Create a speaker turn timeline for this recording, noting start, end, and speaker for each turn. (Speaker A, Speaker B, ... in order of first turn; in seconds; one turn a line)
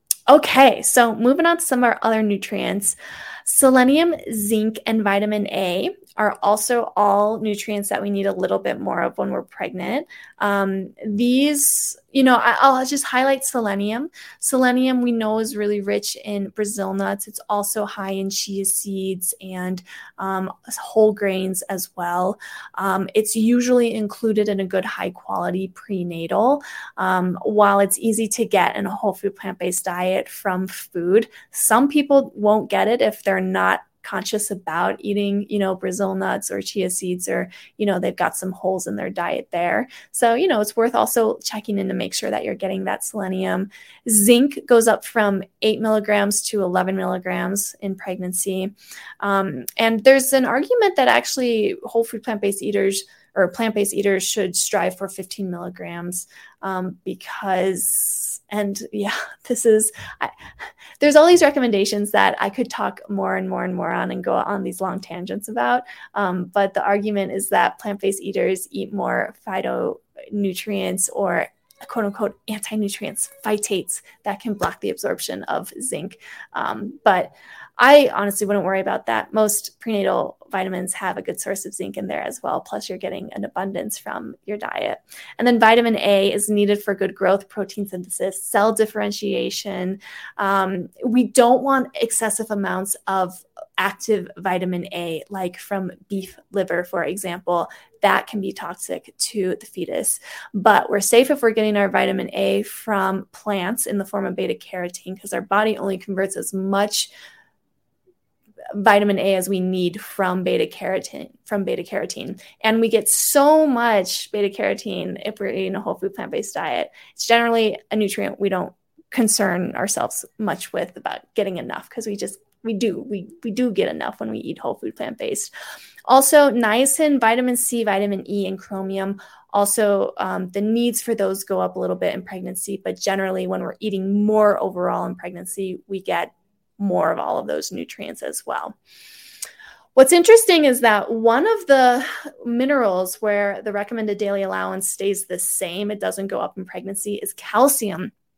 Speaker A: 0.3-60.3
Speaker A: 61.0-107.1
Speaker A: 108.7-125.5
Speaker A: 126.1-138.8
Speaker A: 139.9-148.1